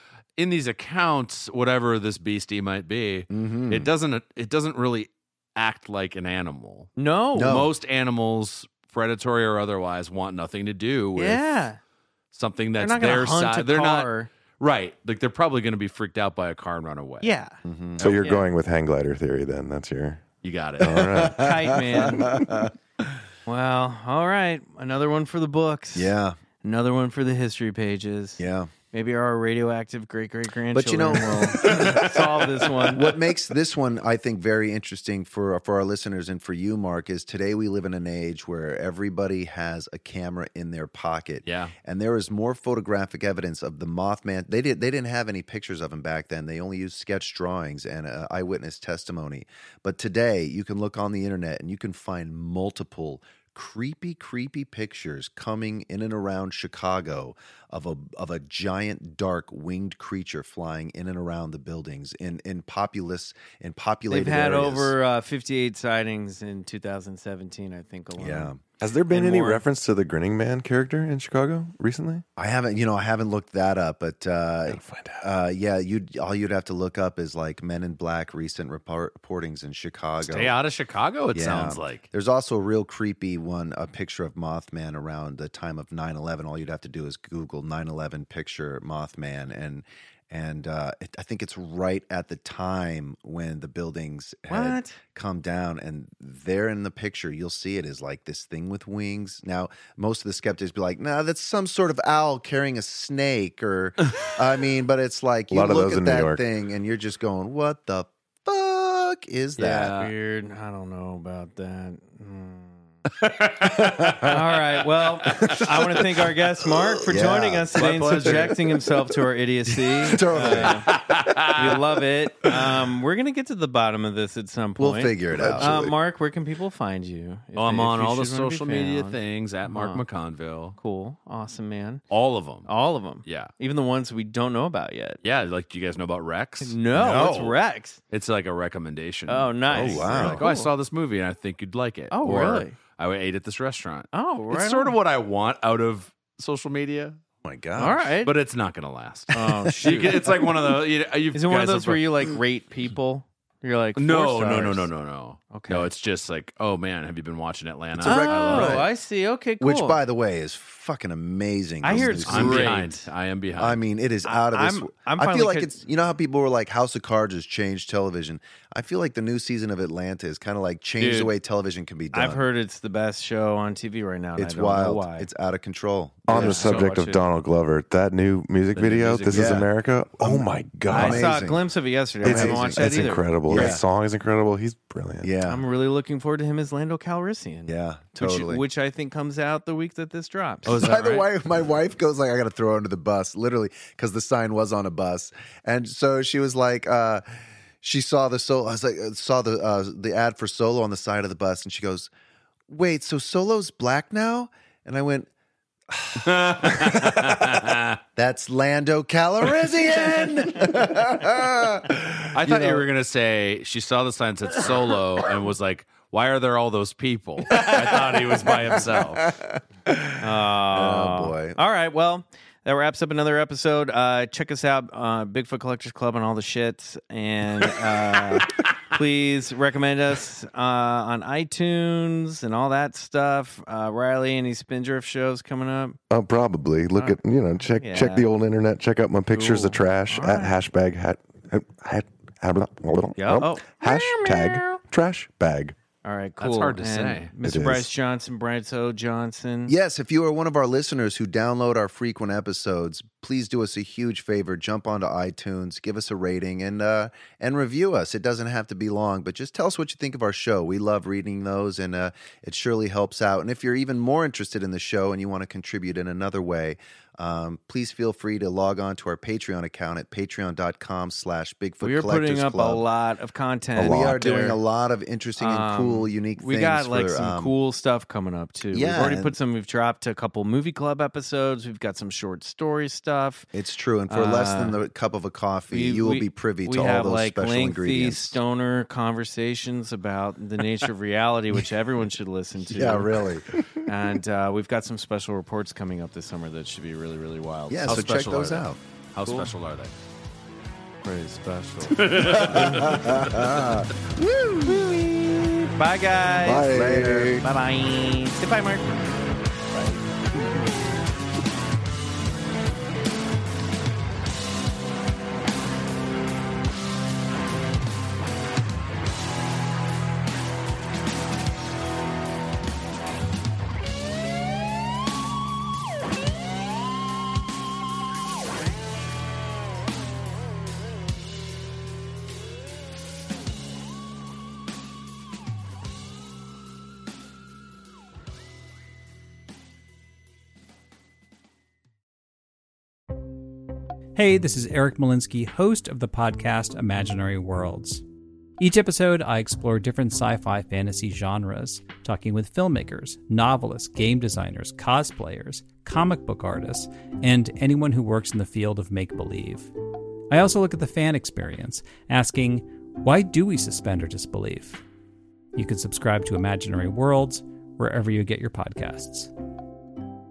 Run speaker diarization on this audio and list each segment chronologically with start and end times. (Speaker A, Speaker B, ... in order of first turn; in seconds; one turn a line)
Speaker A: 0.4-11.4
Speaker B: 3.3-3.9
Speaker C: 7.0-7.6
Speaker B: 7.3-7.7
Speaker C: 11.2-11.8
Speaker A: 12.3-17.3
Speaker C: 12.8-14.3
Speaker C: 17.2-17.6
Speaker B: 17.6-18.1
Speaker D: 18.0-20.2
Speaker C: 18.1-18.4
Speaker A: 20.4-21.0
Speaker D: 20.8-21.4
Speaker B: 20.8-22.7
Speaker C: 21.4-22.2
Speaker C: 23.4-33.1
Speaker B: 25.9-26.4
Speaker B: 28.4-28.7
Speaker B: 30.7-64.9
Speaker A: 41.4-41.7
Speaker C: 64.1-68.5
Speaker B: 68.2-68.6
Speaker D: 68.8-72.2
Speaker C: 69.1-69.6
Speaker B: 72.4-80.6
Speaker D: 74.7-75.2
Speaker A: 80.2-82.0
Speaker B: 81.3-109.9
Speaker C: 94.5-95.0
Speaker D: 105.5-106.4
Speaker A: 109.6-110.1
Speaker C: 109.6-112.9
Speaker A: 113.2-114.3
Speaker B: 113.6-114.2
Speaker C: 114.2-120.9
Speaker A: 115.3-115.6
Speaker B: 117.0-118.5
Speaker A: 117.8-118.5
Speaker B: 120.0-121.7
Speaker A: 120.7-121.7
Speaker C: 121.5-130.0
Speaker B: 124.8-125.9
Speaker A: 127.5-130.8
Speaker C: 130.8-132.0
Speaker A: 132.1-132.7
Speaker C: 132.6-135.2
Speaker A: 133.2-133.5
Speaker A: 135.2-137.5
Speaker C: 136.6-138.0
Speaker B: 136.9-137.5
Speaker A: 138.1-147.2
Speaker C: 139.3-140.7
Speaker B: 139.7-140.4
Speaker C: 142.1-142.8
Speaker C: 144.1-144.9
Speaker B: 147.4-148.1
Speaker C: 147.8-148.3
Speaker A: 148.2-152.3
Speaker C: 149.3-150.2
Speaker B: 149.8-150.3
Speaker C: 151.3-154.9
Speaker A: 153.9-158.8
Speaker C: 155.5-155.9
Speaker B: 158.0-158.9
Speaker C: 158.0-160.0
Speaker B: 159.6-162.8
Speaker C: 161.8-163.1
Speaker A: 162.2-163.8
Speaker B: 163.6-172.5
Speaker C: 164.2-165.7
Speaker C: 171.0-171.3
Speaker C: 172.1-175.3
Speaker B: 174.3-176.9
Speaker D: 176.3-181.3
Speaker C: 176.3-177.2
Speaker A: 178.7-179.6
Speaker B: 179.3-181.6
Speaker C: 180.9-183.7
Speaker D: 182.2-185.3
Speaker B: 182.2-182.8
Speaker B: 183.5-183.8
Speaker B: 185.2-185.6
Speaker C: 185.4-190.7
Speaker B: 187.7-188.6
Speaker A: 190.6-191.3
Speaker B: 190.7-197.3
Speaker B: 197.8-202.1
Speaker B: 202.7-205.3
Speaker B: 205.9-212.8
Speaker A: 206.2-208.0
Speaker A: 212.3-219.2
Speaker B: 217.5-220.2
Speaker C: 220.2-236.0
Speaker B: 220.7-221.6
Speaker D: 236.1-245.8
Speaker C: 236.9-237.2
Speaker C: 237.7-238.3
Speaker C: 239.3-240.5
Speaker C: 243.2-244.8
Speaker C: 246.0-249.7
Speaker A: 246.4-247.3
Speaker D: 247.4-247.9
Speaker B: 249.7-272.8
Speaker C: 271.8-274.6
Speaker D: 273.8-274.3
Speaker B: 273.9-277.6
Speaker C: 275.4-283.5
Speaker B: 278.7-279.4
Speaker B: 283.5-288.4
Speaker C: 284.1-284.8
Speaker C: 285.7-293.1
Speaker B: 292.7-293.5
Speaker C: 293.8-298.0
Speaker B: 297.7-298.8
Speaker A: 297.9-299.9
Speaker C: 301.0-302.9
Speaker A: 301.9-303.3
Speaker B: 302.1-304.9
Speaker C: 304.6-309.0
Speaker B: 306.4-307.4
Speaker D: 306.4-307.4
Speaker E: 344.1-348.0
Speaker E: 348.6-359.7
Speaker E: 360.3-364.8
Speaker E: 365.6-369.3